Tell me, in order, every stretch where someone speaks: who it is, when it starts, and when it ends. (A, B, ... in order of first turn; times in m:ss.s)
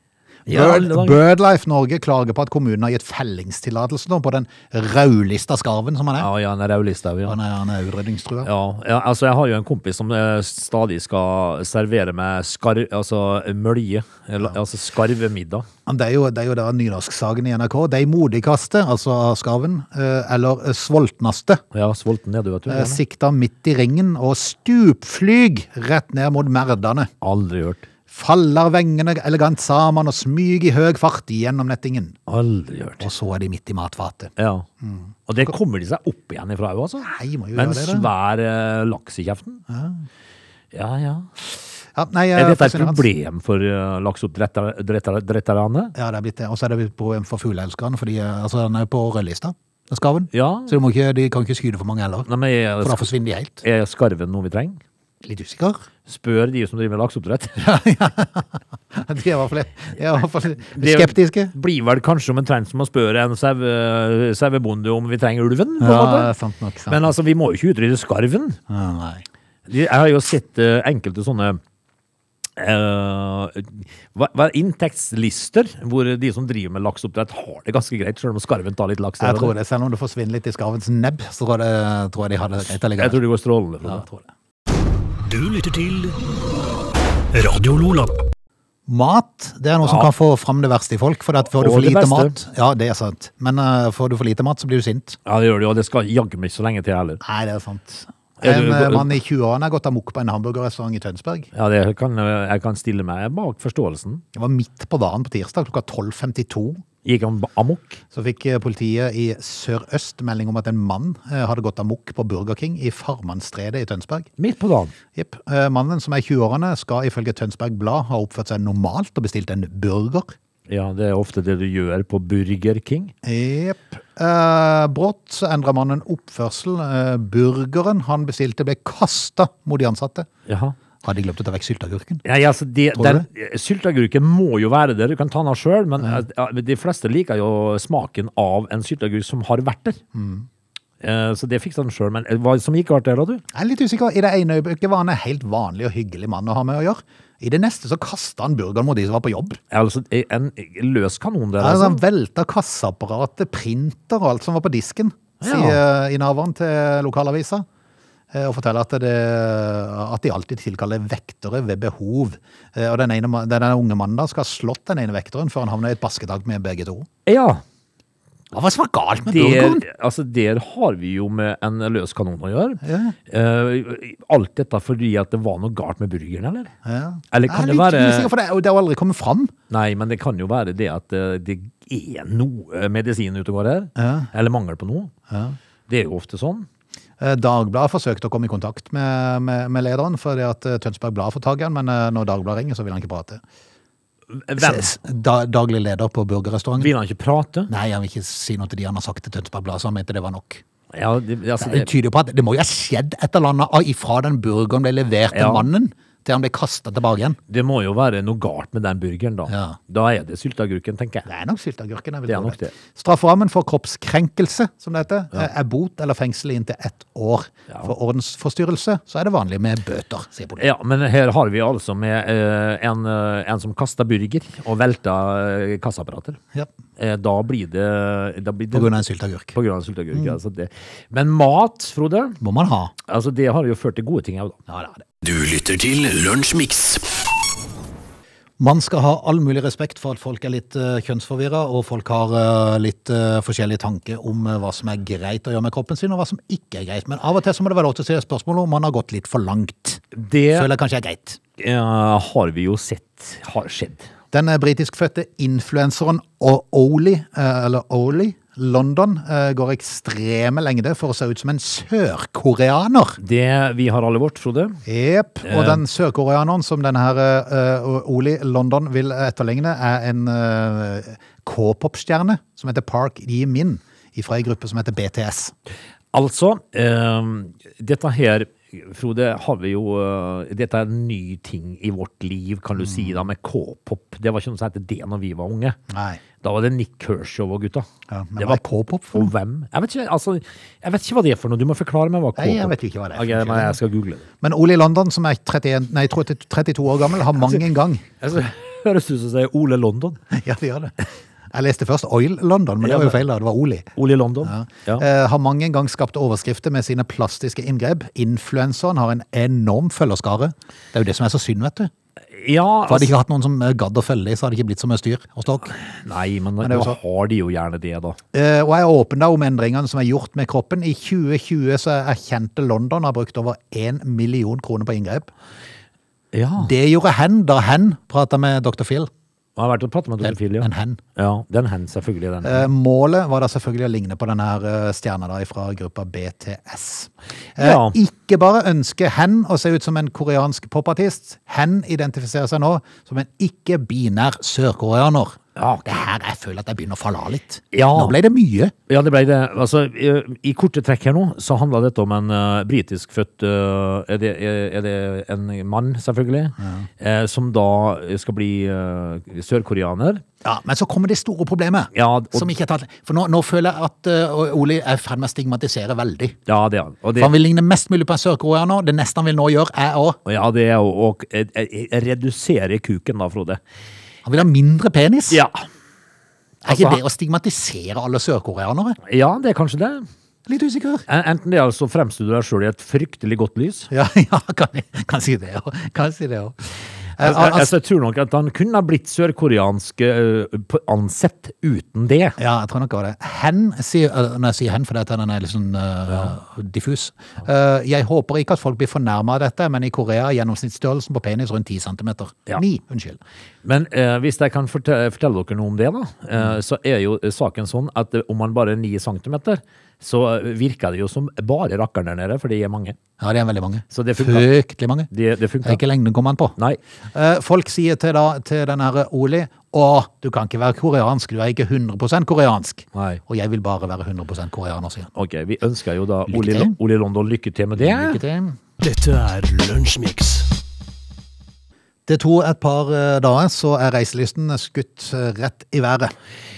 0:00.5-0:01.2 A
0:00.5-0:06.3 B
0:06.2-0:07.4 A
0:07.2-0:08.5 B
0:08.4-0:15.6 A
0:15.8-0:21.6 B
0:21.7-0:23.0 A
0:22.7-0:27.1 B
0:27.2-0:27.9 A
0:28.1-0:32.2 B
0:32.3-0:33.1 A
0:33.0-0:35.2 B
0:34.4-0:34.7 A
0:35.3-0:39.6 A
0:37.0-0:38.1 B
0:39.7-0:40.0 B
0:40.7-0:41.3 A
0:41.9-0:43.0 B
0:42.3-0:45.9 A
0:45.9-0:52.3 B
0:50.3-0:50.7 A
0:52.3-0:53.1 A
0:52.8-0:53.6 B
0:53.6-0:54.8 A
0:55.2-0:55.8 B
0:56.0-0:57.6 A
0:57.6-1:01.5 B
1:00.7-1:06.3 A
1:05.8-1:07.0 B
1:06.9-1:08.6 A
1:08.7-1:09.2 B
1:09.7-1:11.6 A
1:12.6-1:19.5 A
1:19.2-1:23.2 B
1:22.7-1:24.0 A
1:23.8-1:24.3 B
1:25.3-1:26.1 C
1:27.3-1:28.1 C
1:28.9-1:35.2 B
1:29.8-1:30.1 A
1:31.4-1:32.3 A
1:35.2-1:37.2 A
1:37.2-1:41.5 B
1:38.4-1:39.2 A
1:41.5-1:44.2 A
1:44.3-1:46.8 B
1:47.0-1:48.0 A
1:48.1-1:54.3 B
1:54.4-1:54.9 A
1:55.1-2:00.4 B
2:00.7-2:03.1 A
2:03.2-2:10.3 B
2:10.5-2:10.8 A
2:11.0-2:12.2 B
2:12.2-2:20.0 A
2:12.9-2:13.2 B
2:20.1-2:20.5 B
2:21.0-2:23.4 A
2:23.5-2:29.6 B
2:29.7-2:32.0 A
2:31.6-2:37.6 B
2:35.4-2:35.8 A
2:38.3-2:47.1 B
2:47.2-2:47.6 A
2:48.5-2:49.8 B
2:49.3-2:56.7 A
2:52.8-2:53.2 B
2:56.8-2:59.5 B
2:57.3-2:58.3 A
2:59.7-3:05.1 A
3:04.0-3:04.3 B
3:05.3-3:05.6 B
3:05.9-3:06.7 A
3:07.2-3:13.4 B
3:14.3-3:14.9 A
3:14.6-3:16.9 B
3:16.8-3:17.7 A
3:17.7-3:20.6 B
3:20.9-3:21.9 A
3:21.6-3:27.4 B
3:25.3-3:25.7 A
3:27.5-3:31.2 A
3:29.5-3:29.8 B
3:31.2-3:40.7 B
3:32.3-3:32.7 A
3:40.6-3:46.4 A
3:47.0-3:49.0 A
3:48.7-3:49.6 B
3:49.5-3:52.4 A
3:52.4-3:52.9 B
3:53.0-3:54.6 A
3:54.7-3:55.0 B
3:55.2-3:57.1 C
3:58.6-4:11.4 B
4:10.1-4:10.7 A
4:11.6-4:14.1 A
4:14.3-4:23.2 B
4:23.2-4:24.8 A
4:24.8-4:35.5 B
4:25.4-4:25.8 A
4:36.1-4:45.8 A
4:42.8-4:43.2 B
4:45.9-4:46.2 B
4:46.4-4:54.2 A
4:48.1-4:49.3 B
4:52.4-4:53.8 B
4:54.4-4:58.1 B
4:58.2-5:00.2 A
5:00.3-5:00.9 B
5:01.5-5:03.9 B
5:02.8-5:03.2 A
5:04.0-5:05.0 A
5:04.4-5:11.9 B
5:12.3-5:13.1 A
5:12.9-5:15.8 B
5:15.7-5:18.2 A
5:16.6-5:17.0 B
5:18.3-5:25.3 B
5:26.3-5:26.7 A
5:26.6-5:29.1 B
5:29.6-5:32.7 A
5:30.2-5:31.0 B
5:32.4-5:48.7 B
5:37.6-5:38.0 A
5:45.6-5:46.0 A
5:47.7-5:48.2 A
5:48.9-6:00.2 A
5:56.6-5:56.8 B
6:00.4-6:06.4 B
6:01.9-6:02.5 A
6:06.5-6:07.3 A
6:07.2-6:10.2 B
6:10.2-6:13.6 A
6:14.2-6:15.4 B
6:15.3-6:15.6 A
6:16.6-6:19.0 B
6:16.6-6:17.0 A
6:19.0-6:20.1 A
6:20.5-6:21.0 B
6:21.1-6:23.9 A
6:23.9-6:27.7 B
6:27.2-6:32.4 A
6:32.4-6:43.2 B
6:43.6-6:53.0 A
6:53.2-6:55.1 B
6:53.9-6:54.5 A
6:55.1-6:55.8 A
6:55.6-6:56.6 B
6:57.1-7:05.1 B
7:02.9-7:03.2 A
7:05.2-7:08.2 A
7:06.3-7:06.7 B
7:07.8-7:08.6 B
7:08.8-7:10.5 C
7:12.1-7:16.1 B